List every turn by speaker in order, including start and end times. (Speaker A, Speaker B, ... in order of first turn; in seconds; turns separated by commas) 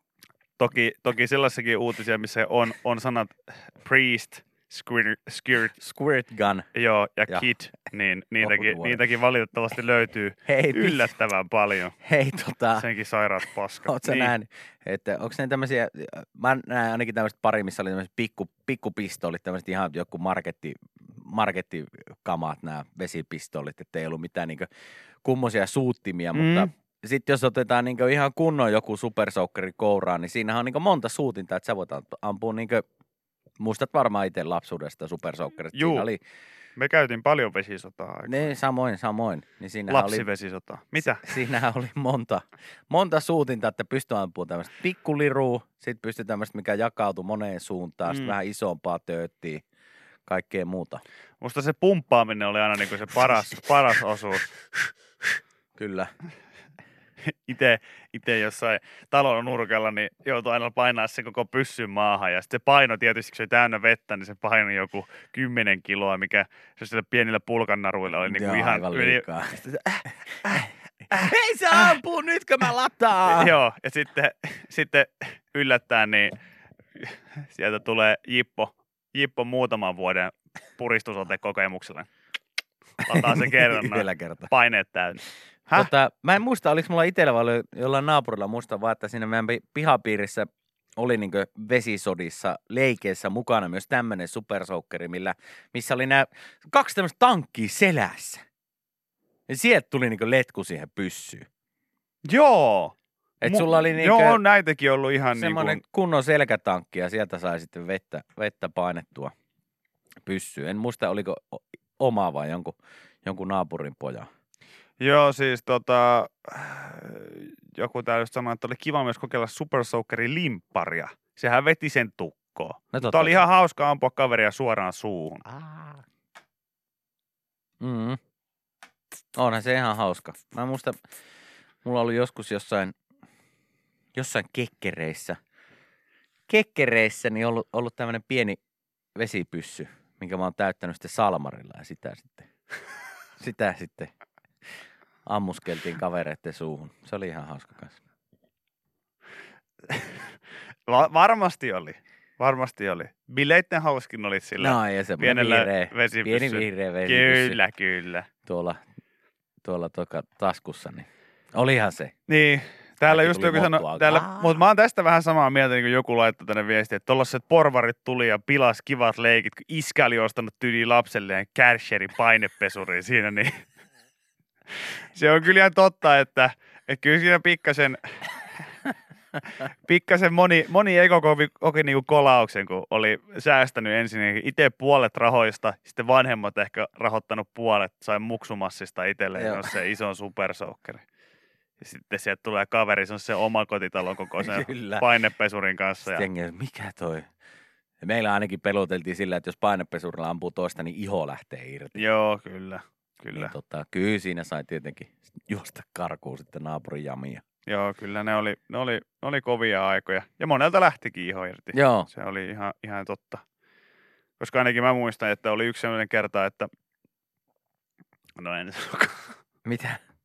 Speaker A: 0.6-5.7, Speaker B: 5.8-6.7, Speaker A: 6.7-11.9, Speaker B: 8.4-9.0, Speaker B: 10.5-11.0, Speaker B: 12.0-12.9, Speaker A: 12.8-14.3, Speaker B: 13.8-24.7, Speaker B: 25.2-32.8, Speaker A: 26.3-26.7, Speaker B: 33.6-36.2, Speaker A: 35.7-36.1, Speaker A: 36.8-38.5, Speaker B: 38.3-40.2, Speaker A: 39.9-41.2, Speaker B: 41.2-49.6, Speaker A: 48.0-48.4, Speaker B: 50.3-51.0, Speaker A: 51.4-54.5, Speaker B: 55.8-56.1, Speaker A: 57.2-72.0, Speaker B: 68.2-69.6, Speaker B: 71.1-73.5, Speaker A: 73.2-76.3, Speaker A: 77.0-82.1, Speaker A: 83.0-85.9, Speaker B: 83.1-84.5, Speaker B: 85.7-98.4, Speaker B: 99.5-101.5, Speaker A: 102.2-105.8, Speaker B: 103.4-104.4, Speaker B: 105.3-109.3, Speaker B: 110.2-114.3, Speaker A: 115.0-125.4, Speaker B: 122.9-123.4, Speaker B: 125.5-126.0, Speaker B: 127.8-128.2, Speaker B: 129.3-131.0, Speaker B: 131.8-132.9, Speaker B: 134.1-135.4, Speaker B: 136.5-138.6, Speaker B: 139.2-142.5, Speaker B: 143.4-144.1, Speaker B: 145.2-148.0, Speaker A: 149.9-150.2, Speaker A: 150.9-158.3, Speaker B: 154.6-157.6, Speaker B: 158.4-158.8, Speaker B: 159.6-162.1, Speaker A: 162.3-173.7, Speaker B: 163.1-164.6, Speaker A: 174.7-178.0, Speaker A: 179.5-191.0, Speaker B: 189.3-189.7, Speaker A: 191.8-196.3, Speaker B: 194.4-195.1, Speaker B: 196.1-197.3, Speaker B: 198.0-202.0, Speaker A: 201.9-203.5, Speaker B: 203.3-207.4, Speaker A: 207.7-213.4, Speaker B: 211.7-212.1, Speaker A: 214.4-216.7, Speaker A: 218.4-219.3, Speaker B: 219.6-220.0